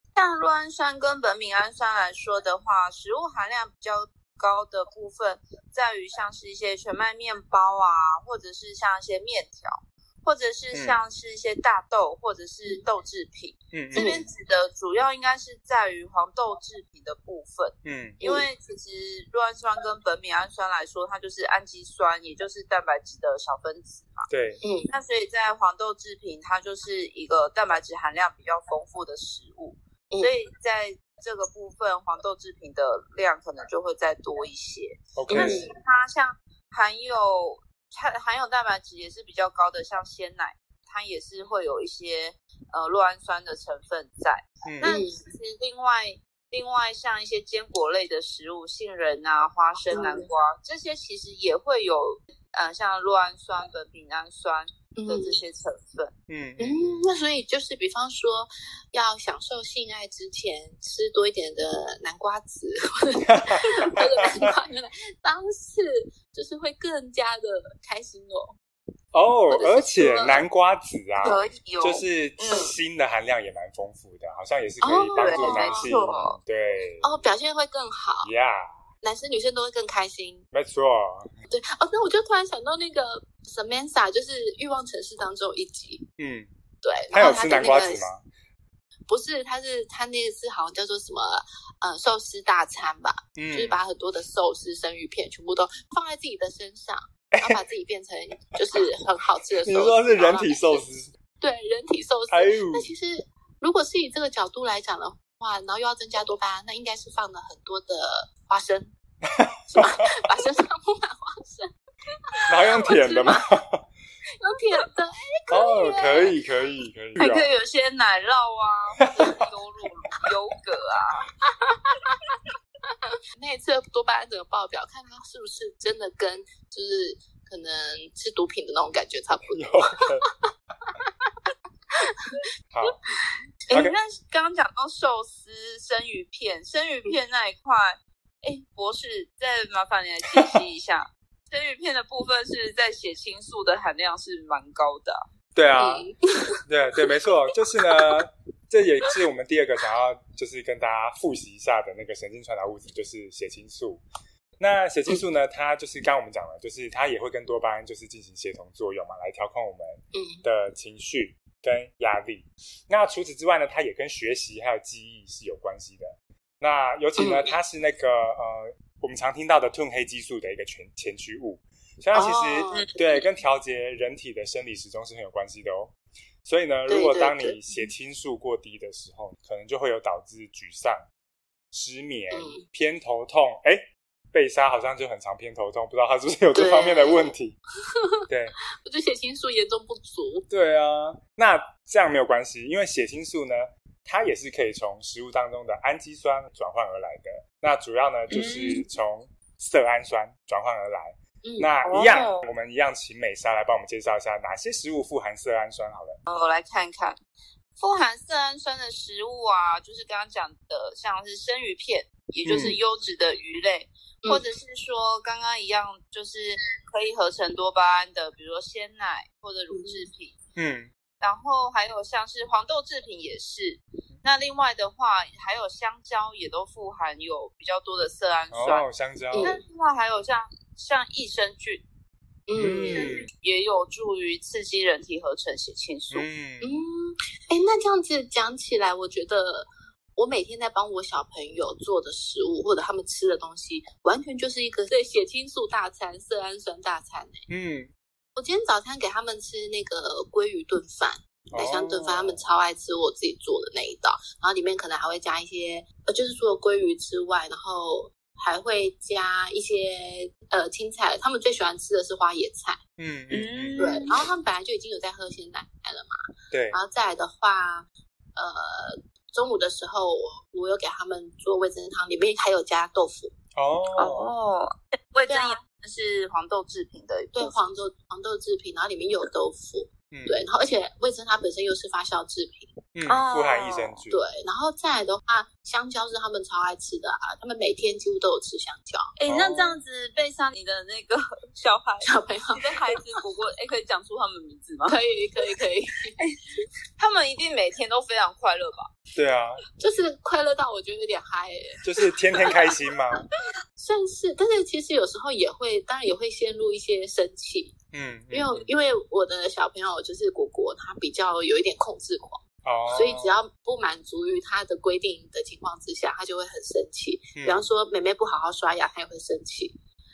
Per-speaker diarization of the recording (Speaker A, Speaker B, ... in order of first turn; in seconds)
Speaker A: 0.1-24.3, 24.9-56.1, 71.2-72.8, 75.2-76.4, 117.2-121.3, 133.7-145.2, 198.3-198.8, 201.8-202.4, 206.3-207.2, 207.8-220.4, 221.2-228.9, 229.4-231.8, 232.8-236.3, 263.3-264.2, 274.0-277.6, 283.1-284.0, 289.2-295.0, 297.0-298.9
Speaker B: 10.7-11.0, 13.7-14.2, 17.9-18.2, 24.3-24.6, 35.2-35.7, 44.7-45.0, 56.3-57.1, 63.3-64.5, 69.1-77.2, 78.2-78.8, 80.5-81.3, 86.2-86.5, 87.1-88.2, 93.4-93.8, 97.3-97.6, 99.6-101.1, 102.3-102.9, 109.3-110.1, 112.5-113.9, 115.5-117.5, 119.0-119.5, 129.5-130.3, 145.6-146.1, 146.7-154.0, 154.6-175.9, 176.5-181.1, 181.7-187.6, 188.3-188.5, 190.5-206.2, 212.5-212.8, 220.6-220.9, 228.5-229.5, 232.6-233.3, 236.1-236.7, 247.5-247.9, 251.5-252.4, 263.0-264.1, 266.5-266.8, 273.6-274.3, 280.1-280.4, 282.9-284.2, 289.3-289.8, 299.1-299.6, 301.8-303.3, 307.9-308.7, 312.6-313.4, 317.4-317.7
Speaker C: 13.9-14.2, 18.2-18.5, 24.6-24.9, 35.3-35.7, 44.9-45.2, 49.9-50.3, 55.0-55.4, 56.6-68.6, 69.5-70.4, 74.8-75.9, 77.0-78.3, 79.0-80.5, 81.5-86.0, 86.8-88.0, 89.1-100.8, 101.4-108.9, 109.7-111.7, 112.3-113.5, 114.4-116.4, 121.4-122.3, 123.3-130.0, 132.0-132.4, 145.8-146.6, 147.9-148.2, 160.1-160.4, 167.2-167.5, 172.2-173.2, 176.9-177.6, 182.3-182.6, 186.5-187.3, 188.8-190.5, 201.4-201.7, 219.7-220.1, 229.3-229.6, 232.5-233.2, 236.6-247.4, 248.4-262.8, 263.8-266.2, 266.7-273.3, 275.3-275.6, 277.4-282.8, 284.1-289.1, 292.0-292.8, 294.9-296.1, 299.8-302.8, 303.8-307.7, 308.3-319.8